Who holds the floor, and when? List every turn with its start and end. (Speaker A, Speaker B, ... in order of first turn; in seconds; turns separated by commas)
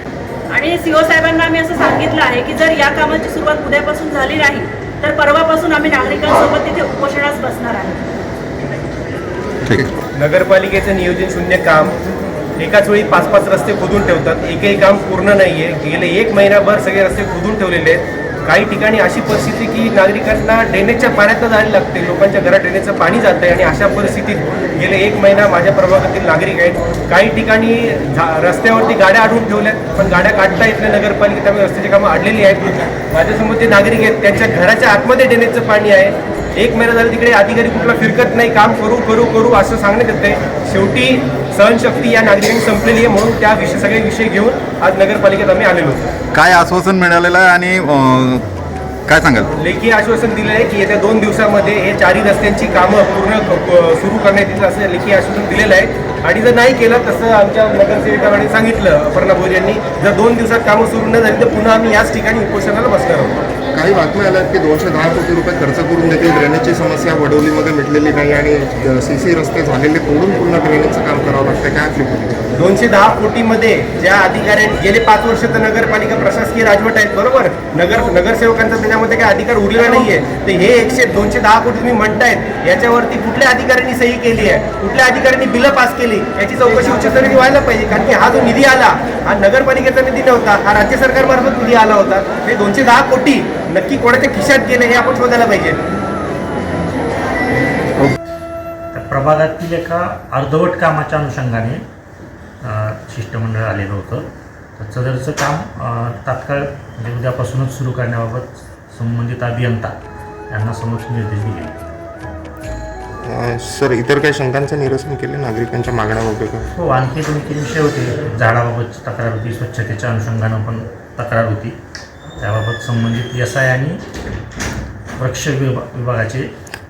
Speaker A: 0.5-8.0, Speaker B: 10.2-11.9, Speaker B: 12.6-46.1, Speaker C: 46.3-48.4, Speaker C: 49.1-49.5, Speaker B: 49.6-63.4, Speaker D: 63.7-72.5, Speaker B: 72.6-95.8, Speaker E: 98.9-101.8, Speaker E: 102.6-104.3, Speaker E: 104.8-109.9, Speaker E: 110.5-111.8, Speaker D: 113.2-116.7, Speaker E: 116.8-121.7, Speaker E: 122.4-124.0, Speaker E: 125.2-126.5